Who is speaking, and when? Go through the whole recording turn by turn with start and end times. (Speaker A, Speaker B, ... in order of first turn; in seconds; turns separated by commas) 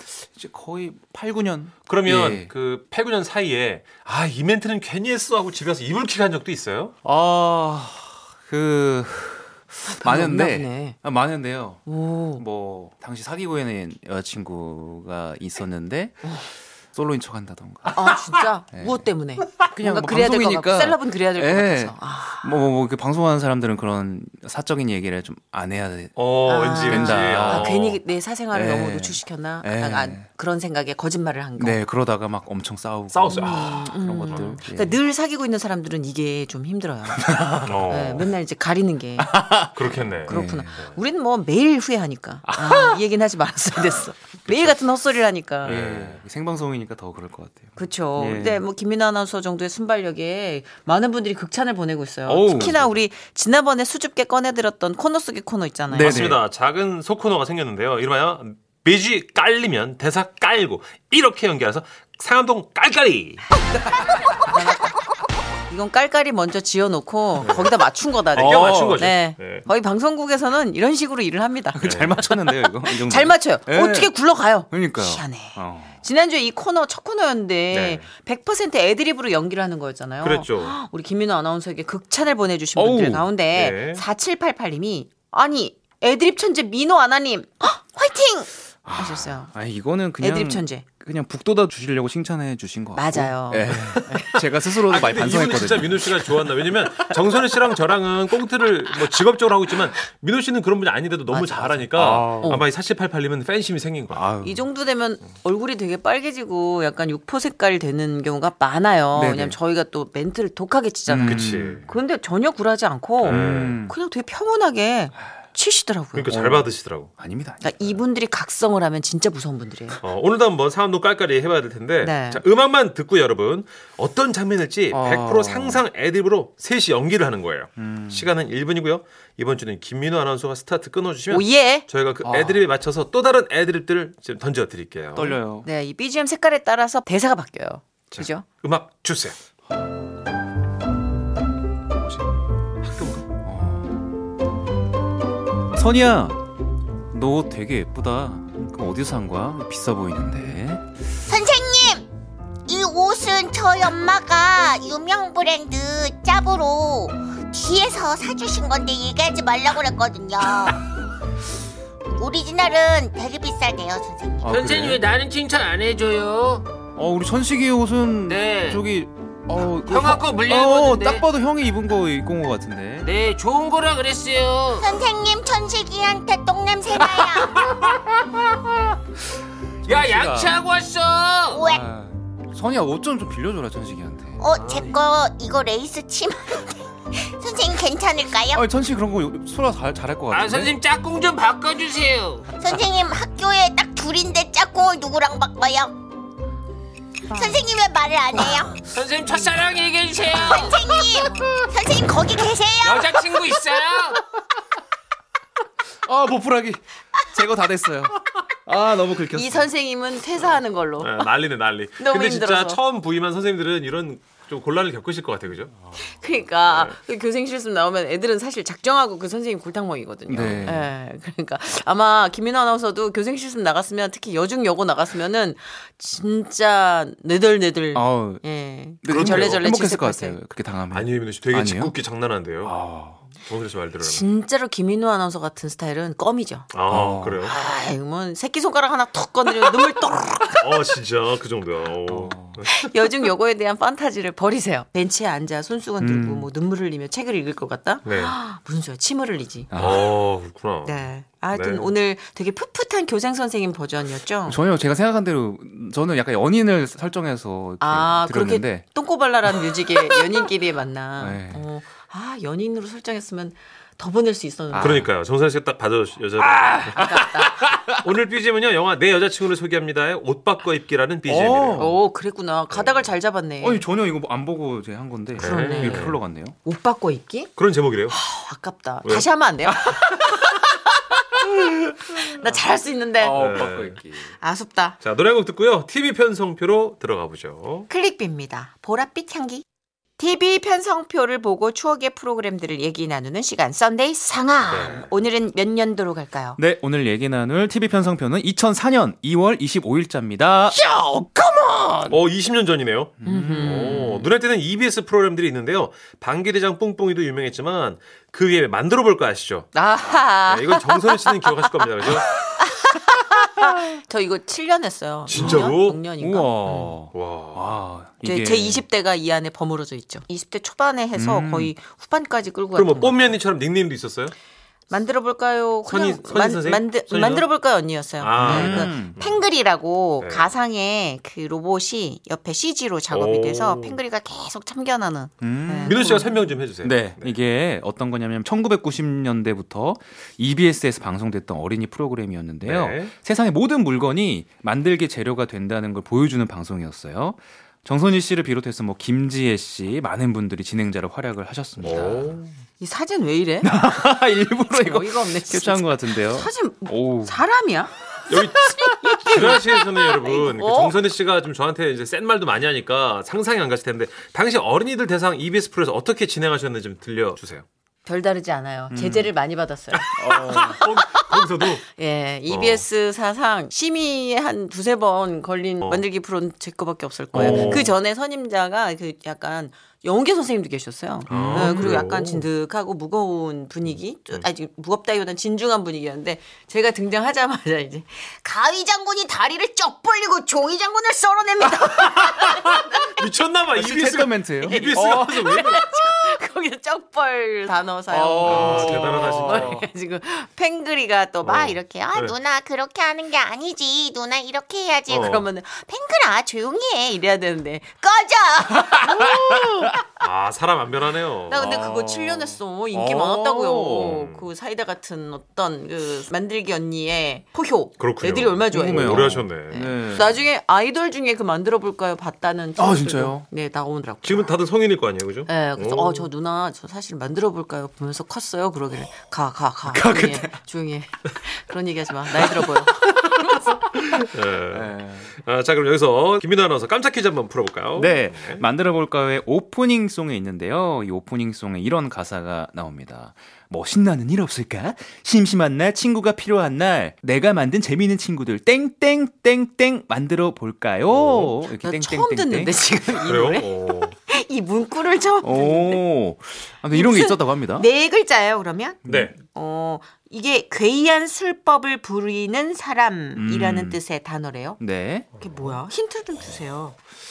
Speaker A: 0.2-2.5, Speaker B: 1.9-6.9, Speaker A: 7.0-19.0, Speaker C: 9.8-11.0, Speaker C: 11.8-12.4, Speaker C: 17.9-22.6, Speaker A: 19.6-27.7, Speaker B: 26.1-28.0, Speaker C: 26.4-31.8, Speaker A: 28.5-30.2, Speaker A: 31.6-35.0, Speaker B: 33.1-34.6, Speaker C: 33.3-37.3, Speaker A: 37.2-38.0, Speaker B: 37.6-38.2, Speaker C: 37.9-39.4, Speaker A: 39.2-40.9, Speaker B: 39.7-40.9, Speaker C: 40.2-45.8, Speaker A: 42.4-43.0, Speaker A: 44.5-44.7, Speaker A: 45.6-48.6, Speaker B: 45.6-46.2, Speaker C: 47.8-56.3, Speaker A: 52.2-52.8, Speaker B: 52.5-52.9, Speaker A: 55.9-56.4, Speaker B: 55.9-63.4, Speaker C: 64.4-64.9, Speaker C: 65.7-89.5, Speaker B: 67.4-67.8, Speaker A: 68.3-69.1, Speaker B: 68.3-69.7, Speaker A: 71.7-76.0, Speaker B: 71.8-72.2, Speaker B: 77.7-78.1, Speaker B: 80.2-80.8, Speaker A: 82.8-83.3, Speaker B: 83.5-84.0, Speaker A: 88.8-96.6, Speaker C: 90.2-90.8, Speaker C: 92.9-94.5, Speaker B: 94.8-104.3, Speaker C: 101.3-102.6, Speaker A: 101.9-102.6, Speaker A: 104.1-104.6, Speaker C: 104.4-116.3, Speaker A: 109.1-109.6, Speaker A: 111.1-111.8, Speaker B: 111.3-111.9, Speaker B: 113.2-113.8, Speaker A: 113.3-113.9, Speaker B: 116.1-117.1, Speaker A: 116.3-118.0, Speaker C: 117.6-120.0, Speaker B: 120.0-135.4, Speaker C: 122.0-122.4, Speaker A: 124.9-125.8, Speaker A: 127.8-128.3, Speaker C: 131.3-131.8, Speaker A: 132.2-132.7, Speaker A: 135.1-135.7, Speaker C: 135.6-138.4, Speaker B: 138.1-139.4, Speaker B: 142.8-143.2, Speaker A: 143.4-144.1, Speaker A: 145.7-146.5, Speaker A: 147.1-150.8, Speaker D: 151.2-152.1, Speaker D: 152.7-160.8, Speaker D: 162.2-164.5, Speaker A: 164.4-165.1, Speaker E: 164.5-166.7, Speaker A: 166.9-173.1, Speaker E: 168.3-168.8, Speaker E: 169.6-171.2, Speaker E: 173.0-175.0, Speaker D: 174.8-177.6, Speaker A: 179.8-180.6, Speaker E: 179.8-181.7, Speaker D: 181.5-181.8, Speaker A: 181.6-184.4, Speaker D: 184.4-188.6, Speaker E: 184.6-185.0, Speaker A: 188.5-190.8, Speaker E: 190.3-192.5, Speaker D: 192.6-195.9, Speaker D: 197.3-198.9, Speaker E: 198.8-200.7, Speaker D: 200.3-203.1, Speaker E: 202.8-204.2, Speaker A: 206.0-209.7, Speaker C: 209.3-211.3, Speaker B: 211.0-215.8, Speaker C: 212.0-212.8, Speaker C: 215.9-230.4, Speaker B: 216.6-217.0, Speaker A: 220.3-220.9, Speaker B: 220.3-220.8, Speaker A: 227.9-232.0, Speaker B: 229.1-229.7, Speaker B: 230.9-232.8, Speaker A: 232.6-233.2, Speaker B: 233.4-234.3, Speaker C: 234.0-236.7, Speaker B: 236.7-237.6, Speaker A: 236.9-237.4, Speaker C: 237.4-240.6, Speaker B: 240.6-242.9, Speaker A: 242.1-242.6, Speaker C: 242.7-249.7, Speaker A: 246.0-246.5, Speaker B: 248.0-248.3, Speaker A: 249.7-250.1, Speaker B: 249.7-251.9, Speaker C: 250.8-254.6, Speaker A: 254.4-258.9, Speaker C: 257.8-265.0, Speaker A: 259.5-260.3, Speaker A: 261.2-261.6, Speaker A: 264.7-265.1, Speaker B: 264.7-272.0, Speaker A: 266.4-267.9, Speaker C: 266.9-267.6, Speaker A: 271.2-272.0, Speaker C: 271.7-273.8, Speaker B: 272.7-273.1, Speaker A: 273.6-276.6, Speaker B: 275.3-276.2, Speaker C: 275.4-277.5, Speaker B: 277.6-278.2, Speaker C: 278.1-283.7, Speaker A: 283.2-284.3, Speaker B: 283.3-284.0, Speaker C: 284.3-285.0, Speaker B: 285.0-287.9, Speaker C: 287.9-289.6, Speaker C: 290.2-296.6, Speaker B: 294.7-295.1, Speaker A: 296.6-302.2, Speaker B: 302.1-312.4, Speaker A: 303.2-304.2, Speaker C: 303.2-304.2, Speaker C: 309.7-316.9, Speaker B: 315.2-316.0, Speaker A: 315.3-318.8, Speaker B: 317.1-317.8, Speaker C: 318.2-323.4, Speaker A: 321.1-321.7, Speaker B: 322.7-324.3, Speaker C: 324.9-336.3, Speaker B: 325.9-327.5, Speaker B: 328.2-329.4, Speaker A: 328.4-329.2, Speaker B: 330.2-330.5, Speaker B: 333.1-334.0, Speaker A: 335.4-336.2, Speaker B: 335.8-337.4, Speaker A: 336.8-352.4, Speaker B: 342.6-343.1, Speaker B: 351.8-352.5, Speaker C: 352.8-353.9, Speaker A: 353.6-357.4, Speaker C: 354.6-361.0, Speaker B: 358.3-358.6, Speaker A: 358.4-359.6, Speaker B: 359.2-367.6, Speaker C: 368.0-393.1, Speaker A: 368.9-369.3, Speaker A: 370.1-370.8, Speaker B: 370.2-371.9, Speaker B: 372.5-372.8, Speaker B: 377.3-377.9, Speaker A: 377.4-377.9, Speaker B: 381.3-382.4, Speaker A: 381.3-382.1, Speaker B: 383.9-384.4, Speaker B: 392.0-395.8, Speaker A: 393.7-395.8, Speaker C: 394.6-402.3, Speaker A: 398.1-399.8, Speaker B: 398.4-399.8, Speaker B: 401.4-402.3, Speaker D: 402.1-405.1, Speaker C: 405.0-409.6, Speaker B: 405.1-405.5, Speaker A: 409.4-409.9, Speaker B: 410.2-411.7, Speaker C: 411.5-424.5, Speaker A: 411.5-414.2, Speaker B: 413.9-414.5, Speaker B: 418.0-419.9, Speaker A: 418.7-420.4, Speaker A: 422.8-423.4, Speaker B: 424.2-426.3, Speaker C: 425.4-433.6, Speaker A: 429.9-430.6, Speaker A: 432.3-433.6, Speaker B: 434.2-438.6, Speaker A: 434.7-435.3, Speaker A: 437.9-452.8, Speaker B: 451.1-451.5, Speaker C: 451.8-456.0, Speaker B: 453.2-454.1, Speaker A: 455.4-457.9, Speaker C: 456.9-464.8, Speaker A: 459.1-459.3, Speaker B: 459.1-459.3, Speaker A: 463.3-464.0, Speaker A: 464.8-465.3, Speaker C: 465.4-466.9, Speaker B: 465.4-465.7